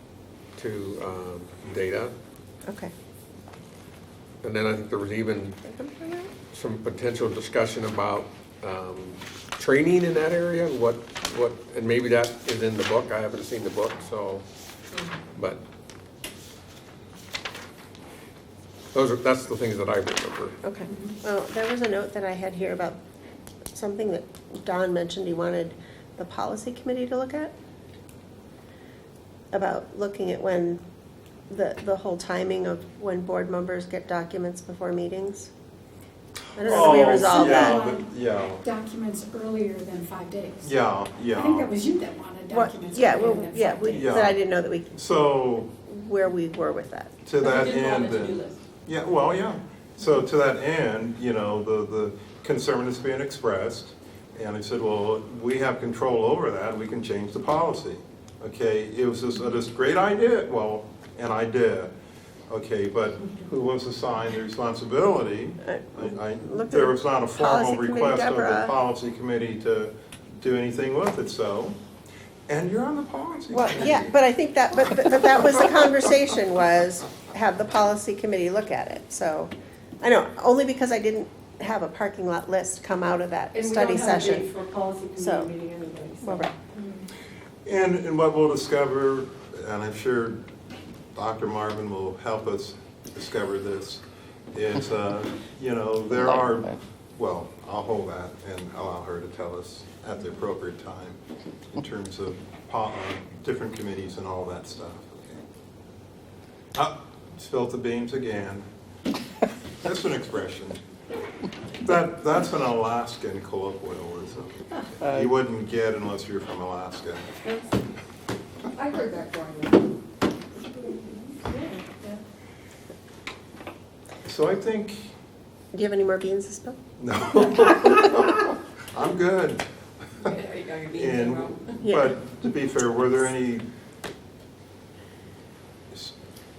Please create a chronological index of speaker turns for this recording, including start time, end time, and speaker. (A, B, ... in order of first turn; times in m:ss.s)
0:00.6-0:02.1 A
0:02.7-0:02.9 B
0:04.4-0:05.6 A
0:05.6-0:06.3 B
0:06.5-0:14.4 A
0:15.4-0:15.6 A
0:18.9-0:20.6 A
0:20.6-0:23.0 B
0:23.7-0:27.5 B
0:29.5-0:30.8 B
0:31.5-0:35.5 B
0:36.6-0:37.8 B
0:36.6-0:38.6 C
0:36.7-0:44.2 D
0:40.6-0:41.7 C
0:42.5-0:45.0 B
0:44.0-0:44.4 C
0:44.9-0:45.7 C
0:45.9-0:47.2 B
0:47.2-1:01.9 C
0:47.4-0:48.6 E
1:02.5-1:11.8 C
1:05.7-1:08.7 B
1:12.5-1:14.1 C
1:13.5-1:24.5 B
1:23.5-1:26.5 F
1:25.2-1:25.5 B
1:26.2-1:26.5 B
1:27.6-1:30.5 C
1:31.2-1:41.2 C
1:41.7-1:45.4 C
1:46.7-1:48.7 C
1:49.8-1:50.8 C
1:51.8-1:57.4 C
1:58.7-1:59.9 F
2:01.4-2:02.2 E
2:04.2-2:05.1 C
2:05.7-2:06.8 B
2:07.0-2:09.6 C
2:10.4-2:11.4 E
2:10.6-2:11.2 F
2:10.9-2:13.7 C
2:11.8-2:12.2 B